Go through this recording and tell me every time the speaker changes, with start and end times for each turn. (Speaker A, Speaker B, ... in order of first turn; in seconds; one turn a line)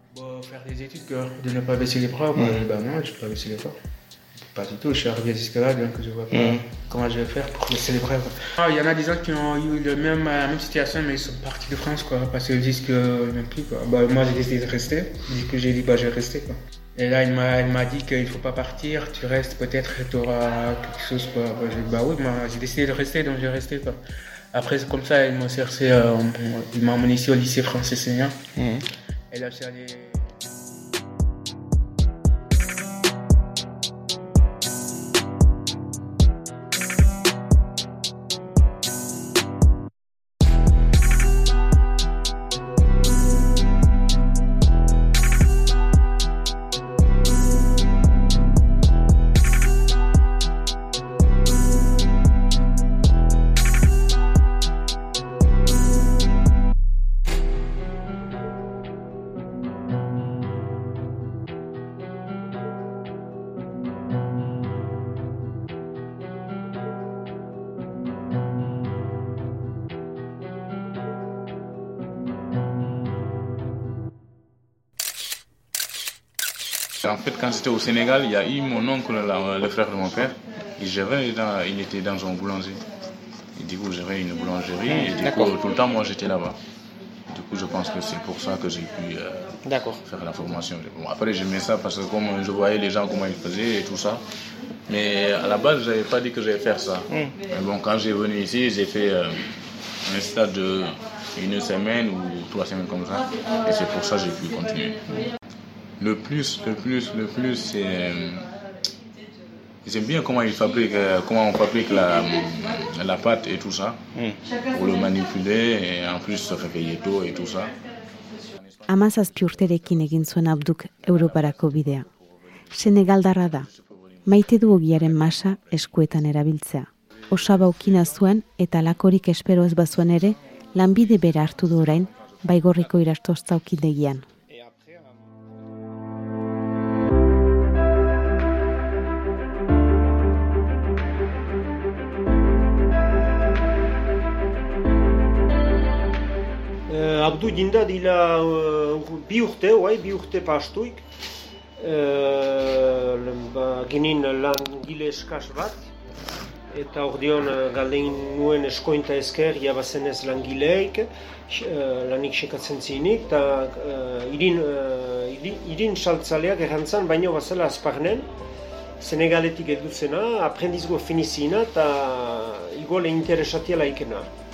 Speaker A: 0.1-3.8
Speaker B: 2.3-2.6
Speaker A: 4.5-24.0
Speaker B: 6.3-6.6
Speaker A: 24.5-28.4
Speaker B: 28.6-28.8
Speaker A: 29.3-30.4
Speaker C: 77.0-82.8
Speaker C: 83.5-86.6
Speaker B: 84.9-85.5
Speaker C: 87.3-94.2
Speaker B: 89.6-90.0
Speaker C: 94.9-105.1
Speaker B: 97.1-97.4
Speaker C: 106.0-108.5
Speaker C: 109.8-114.0
Speaker B: 114.1-114.4
Speaker C: 114.5-117.8
Speaker D: 118.9-122.1
Speaker D: 122.7-123.7
Speaker D: 124.2-134.2
Speaker B: 134.5-135.2
Speaker E: 146.9-151.0
Speaker E: 151.8-155.9
Speaker E: 156.7-168.3
Speaker E: 169.0-174.3